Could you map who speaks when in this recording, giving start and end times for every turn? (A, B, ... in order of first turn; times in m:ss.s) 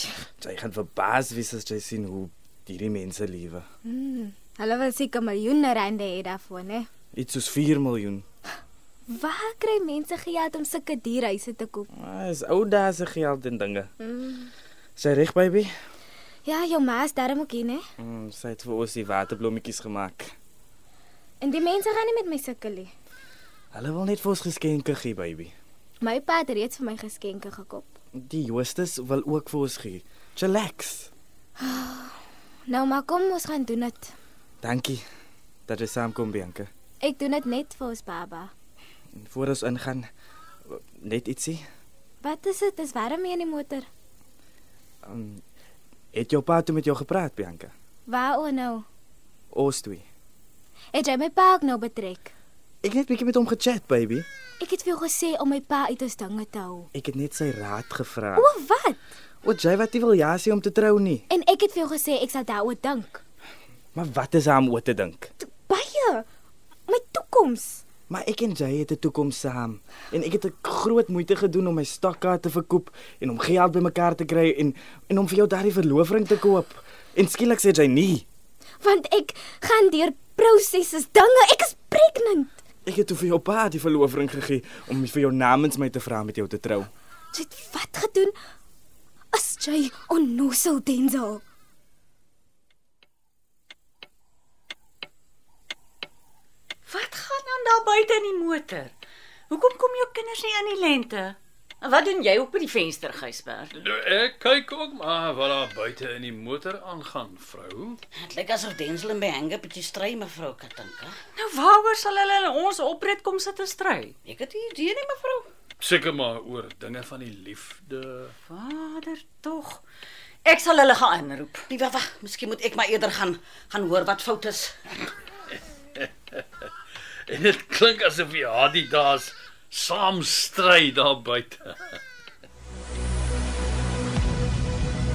0:00.4-0:03.6 A
0:03.8-0:06.9 B
0:07.1-0:08.2 A
0:09.1-0:11.9 B
0:11.9-0:13.9 A
0:14.0-0:14.5 B
0:15.0-0:15.7 A
0:16.4-0:17.8 B
0:18.0-0:20.3 A
0:21.4-0:22.9 B
0:23.7-0:25.5 A
0:26.0-0:27.9 B
0:28.2-0:31.1 A
0:31.6-0:34.1 B
0:34.6-0:35.0 A
0:35.7-0:36.7 A
0:37.0-0:38.5 B
0:39.2-0:40.1 A
0:40.7-0:41.6 A
0:42.2-0:43.9 B
0:45.0-0:45.4 A
0:46.1-0:47.7 A
0:48.1-0:48.8 B
0:49.5-0:50.0 A
0:50.9-0:52.3 B
0:52.8-0:54.2 A
0:54.6-0:56.9 B
0:56.9-0:58.5 A
0:58.4-0:59.0 B
0:59.4-1:01.2 A
1:01.3-1:03.2 B
1:03.9-1:05.3 A
1:05.4-1:06.2 B
1:06.9-1:07.8 B
1:08.1-1:18.2 A
1:18.8-1:22.6 B
1:22.8-1:26.9 A
1:27.3-1:28.3 B
1:29.3-1:31.4 B
1:36.9-1:38.9 C
1:39.5-1:43.7 C
1:43.7-1:48.0 D
1:48.2-1:51.1 E
1:51.4-1:54.1 C
1:54.2-1:55.5 E
1:55.8-1:58.3 D
1:58.5-1:59.8 C
2:00.4-2:01.7 C
2:01.7-2:04.9 E
2:06.0-2:06.4 D
2:07.2-2:12.0 D